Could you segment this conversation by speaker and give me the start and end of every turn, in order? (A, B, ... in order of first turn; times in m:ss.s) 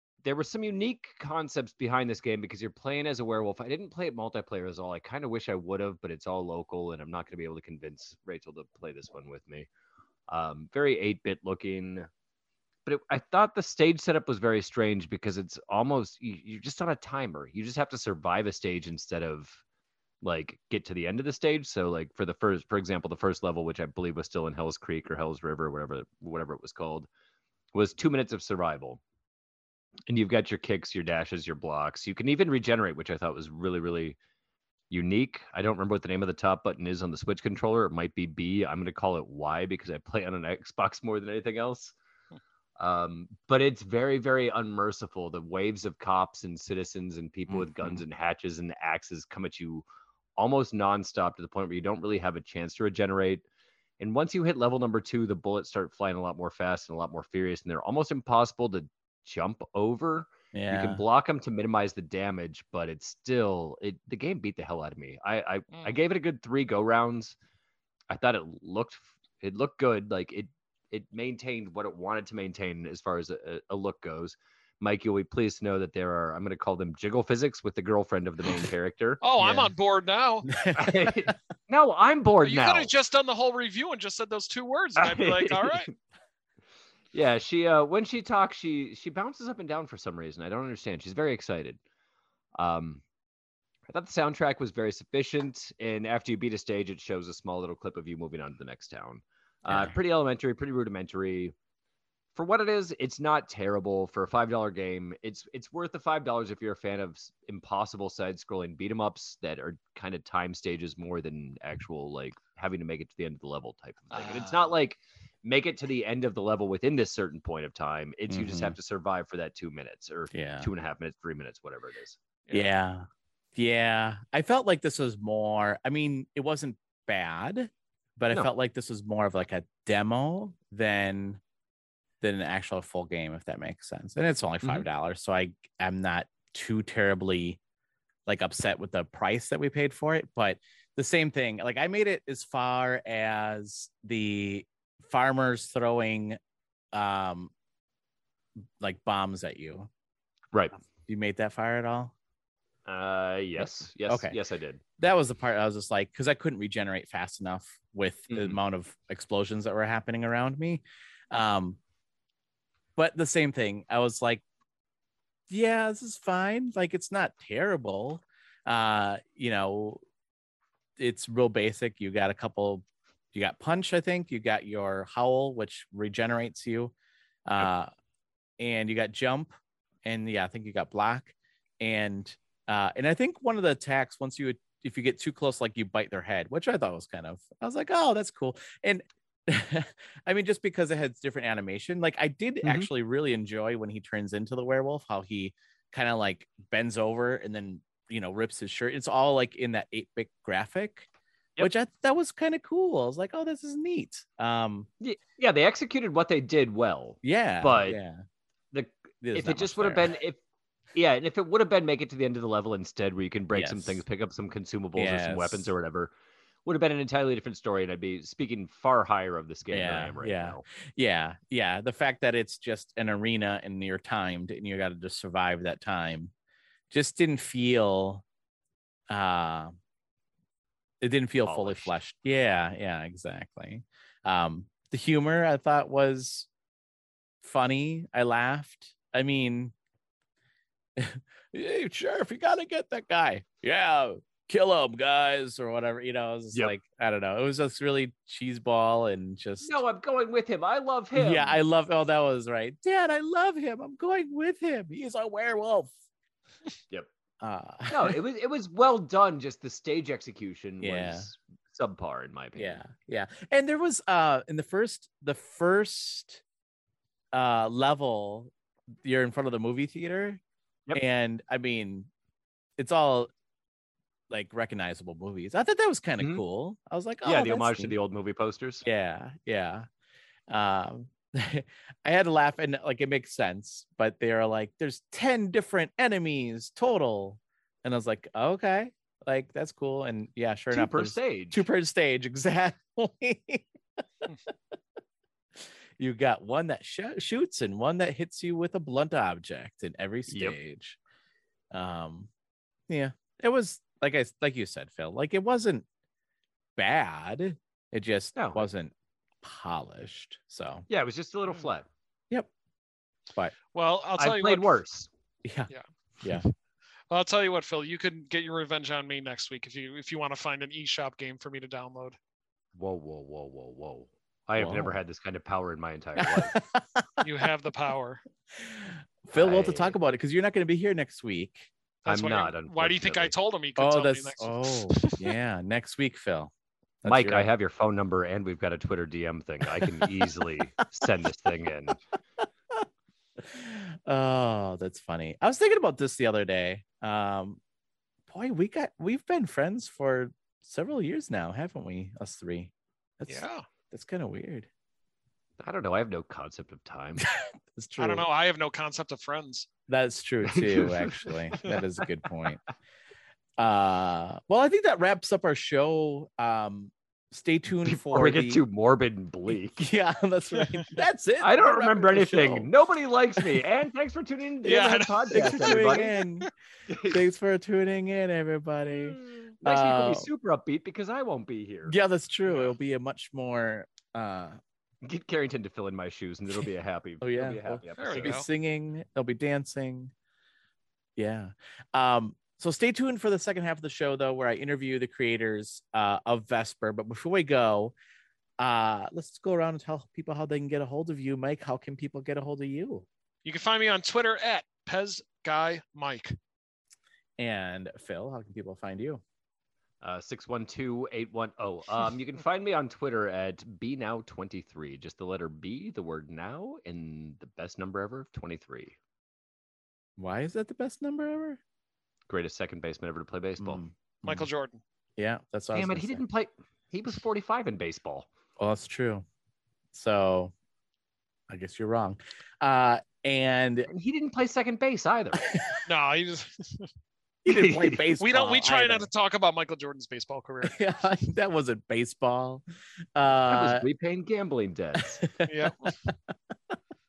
0:00.2-0:09.7 A
0:10.3-0:12.1 A
0:12.8-0:19.6 A
0:20.2-0:27.1 A
0:27.7-0:29.0 A
0:30.1-0:34.2 A
0:34.9-0:41.9 A
0:42.8-0:49.8 A
0:47.5-0:48.0 B
0:50.4-0:53.4 A
0:54.0-1:07.3 A
1:00.5-1:01.0 B
1:05.7-1:06.0 C
1:08.1-1:19.2 A
1:19.2-1:20.5 C
1:19.4-1:19.7 B
1:20.5-1:21.3 B
1:20.7-1:22.9 A
1:22.4-1:25.9 C
1:25.0-1:25.9 A
1:27.1-1:31.8 A
1:32.6-1:33.0 A
1:33.9-1:41.5 A
1:39.7-1:39.9 B
1:42.3-2:02.2 A
1:54.1-1:54.7 C
1:58.3-1:58.8 B
2:00.3-2:00.7 B
2:02.5-2:11.4 B
2:12.2-2:17.6 B
2:18.2-2:26.4 B
2:26.9-2:27.5 B
2:28.8-2:29.9 B
2:30.8-2:32.1 B
2:32.8-2:34.8 A
2:34.1-2:34.4 B
2:35.0-2:41.8 B
2:38.3-2:38.6 A
2:43.0-2:44.4 B
2:45.5-2:50.0 B
2:51.0-2:56.9 B
2:57.4-2:57.9 B
2:58.6-3:21.1 B
3:12.6-3:12.9 A
3:21.6-3:24.9 B
3:25.0-3:28.0 A
3:27.2-3:28.2 B
3:28.7-3:30.4 A
3:29.2-3:30.1 B
3:30.9-3:36.1 A
3:33.5-3:34.0 B
3:35.0-3:35.7 B
3:36.6-3:40.6 A
3:39.7-3:46.3 B
3:46.9-3:48.2 B
3:49.1-3:49.7 B
3:51.0-3:56.5 B
3:51.4-3:51.9 A
3:57.4-3:59.7 B
4:01.0-4:09.8 B
4:09.6-4:11.6 A
4:11.1-4:15.9 B
4:17.4-4:18.2 B
4:17.9-4:22.8 A
4:20.8-4:21.3 B
4:22.6-4:26.4 B
4:27.3-4:28.5 B
4:29.0-4:30.4 B
4:30.9-4:32.1 B
4:32.8-4:33.3 B
4:34.3-4:38.0 B
4:37.2-4:38.8 A
4:38.8-4:39.9 B
4:40.5-4:53.7 B
4:50.7-4:51.6 A
4:55.6-5:01.0 B
5:00.3-5:00.6 A
5:01.7-5:02.3 B
5:02.9-5:05.8 B
5:06.8-5:10.8 B
5:08.3-5:08.6 A
5:10.9-5:11.9 A
5:13.7-5:14.8 C
5:14.2-5:15.1 A
5:15.4-5:16.4 B
5:15.7-5:16.5 C
5:17.1-5:22.2 C
5:22.8-5:26.6 A
5:24.6-5:24.9 B
5:26.2-5:26.8 B
5:27.2-5:28.2 C
5:28.6-5:31.7 B
5:29.3-5:29.9 A
5:32.0-5:35.2 C
5:32.1-5:33.3 A
5:33.8-5:36.5 B
5:37.0-5:37.5 B
5:37.0-5:42.0 A
5:39.8-5:40.1 B
5:43.4-5:47.6 B
5:48.3-5:54.7 B
5:53.3-5:53.6 C
5:55.6-5:57.2 A
5:57.2-5:58.2 B
5:58.0-5:59.7 C
5:59.9-6:02.6 B
6:00.5-6:01.3 A
6:03.6-6:08.6 B
6:07.8-6:09.8 A
6:09.8-6:12.7 B
6:11.4-6:16.1 A
6:14.6-6:16.5 C
6:15.3-6:16.5 B
6:16.9-6:17.2 A
6:17.1-6:20.3 B
6:18.9-6:21.9 A
6:21.9-6:24.6 B
6:25.0-6:28.3 A
6:27.2-6:30.1 B
6:28.0-6:28.5 C
6:31.2-6:37.9 B
6:38.6-6:43.0 B
6:43.4-6:46.4 C
6:47.4-6:49.2 B
6:50.0-6:59.0 A
7:00.2-7:01.6 B
7:02.3-7:03.8 A
7:03.6-7:04.5 B
7:04.2-7:04.8 C
7:05.2-7:06.2 B
7:05.7-7:08.3 A
7:08.6-7:09.2 B
7:09.9-7:10.5 B
7:11.5-7:13.9 B
7:13.9-7:15.5 A
7:15.5-7:15.8 B
7:15.8-7:16.9 C
7:17.4-7:19.1 B
7:17.5-7:18.0 A
7:18.2-7:20.8 C
7:20.6-7:22.6 B
7:23.1-7:23.8 B
7:23.4-7:25.2 A
7:25.2-7:25.7 B
7:25.5-7:25.9 C